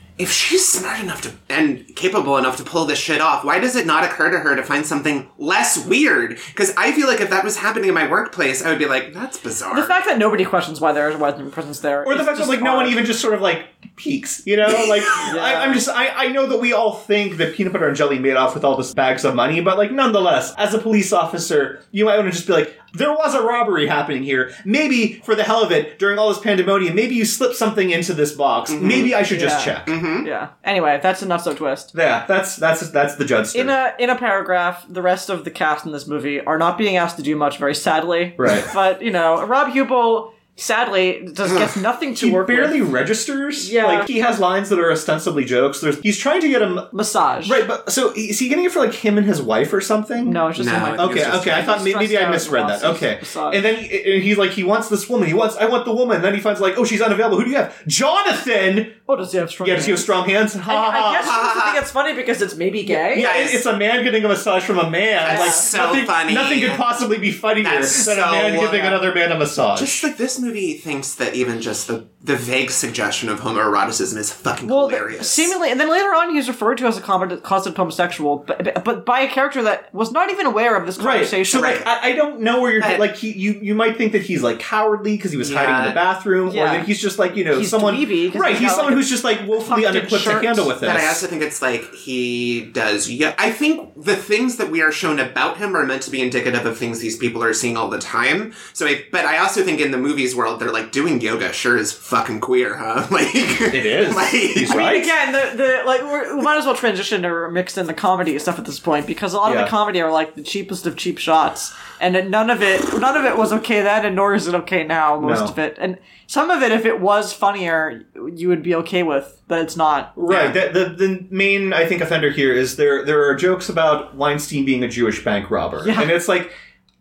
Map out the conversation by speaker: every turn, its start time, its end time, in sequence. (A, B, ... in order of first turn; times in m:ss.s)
0:00.2-0:10.0 A
0:09.7-0:13.0 B
0:12.0-0:29.9 C
0:15.2-0:15.8 B
0:28.7-0:29.1 A
0:29.3-0:31.9 B
0:29.8-0:30.3 A
0:31.9-0:33.8 C
0:33.5-0:42.8 B
0:38.4-0:38.7 C
0:42.1-0:46.9 C
0:43.6-0:44.1 B
0:46.9-0:47.6 B
0:47.4-0:50.4 C
0:50.2-0:53.7 B
0:50.6-0:51.8 A
0:51.0-0:59.0 C
0:59.1-1:00.1 B
0:59.6-1:01.3 C
1:00.6-1:03.3 B
1:01.2-1:01.8 A
1:02.9-1:10.1 C
1:03.1-1:03.6 A
1:05.2-1:06.8 A
1:05.2-1:05.6 B
1:07.6-1:08.9 A
1:09.7-1:15.5 A
1:14.6-1:21.8 B
1:21.0-1:31.2 C
1:21.5-1:21.9 A
1:22.8-1:23.0 A
1:25.4-1:26.0 A
1:26.4-1:26.9 B
1:27.5-1:30.7 B
1:30.8-1:44.8 A
1:43.7-1:45.1 C
1:44.7-2:00.2 B
1:49.4-1:49.7 C
1:55.2-1:55.5 C
2:00.2-2:06.5 C
2:00.3-2:00.5 A
2:05.8-2:06.1 B